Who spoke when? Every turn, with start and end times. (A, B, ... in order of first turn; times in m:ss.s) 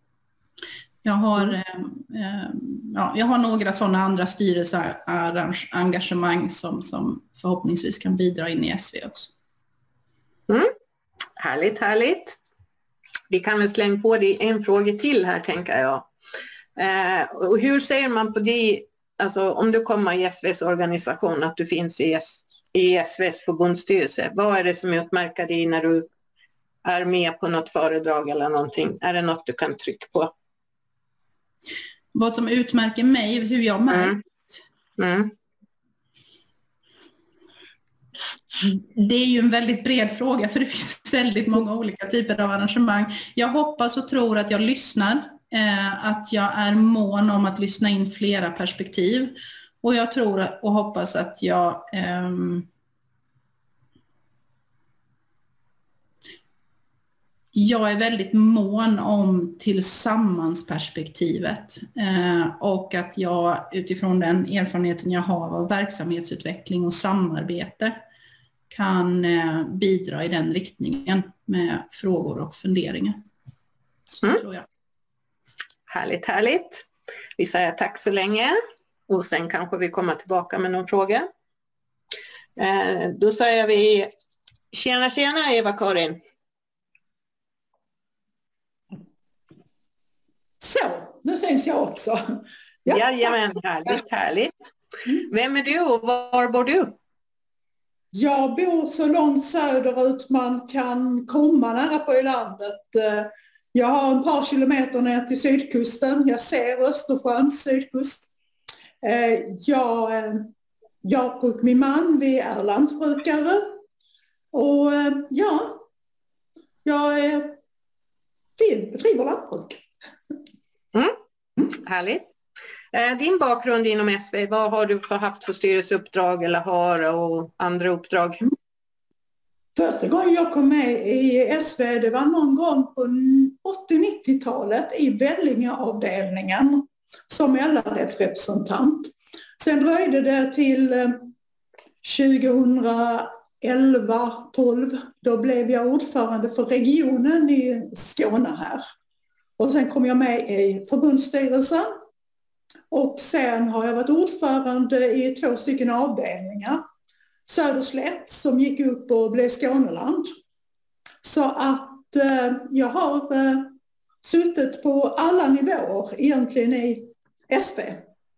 0:01.0-0:09.3 A
0:11.4-0:12.4 B
0:13.3-0:16.1 B
0:16.8-0:26.1 B
0:26.8-0:30.3 B
0:32.1-0:34.6 A
0:33.9-0:34.2 B
0:35.0-0:35.3 B
0:38.6-0:52.7 A
0:57.5-1:08.0 A
1:08.7-1:13.2 A
1:14.1-1:14.6 A
1:15.9-1:16.8 B
1:17.4-1:18.6 B
1:19.1-1:21.3 B
1:22.6-1:24.1 B
1:24.7-1:26.2 B
1:30.6-1:33.4 C
1:32.9-1:34.6 B
1:35.3-1:37.0 B
1:38.1-1:48.3 C
1:49.0-1:50.5 C
1:51.0-1:53.8 C
1:54.5-1:55.8 C
1:56.8-1:57.6 C
1:58.6-1:59.8 C
2:01.7-2:02.3 B
2:02.9-2:08.4 B
2:09.8-2:21.3 C
2:22.0-2:28.8 C
2:29.6-2:31.9 C
2:32.9-2:36.8 C
2:37.5-2:40.3 C
2:41.2-2:48.1 C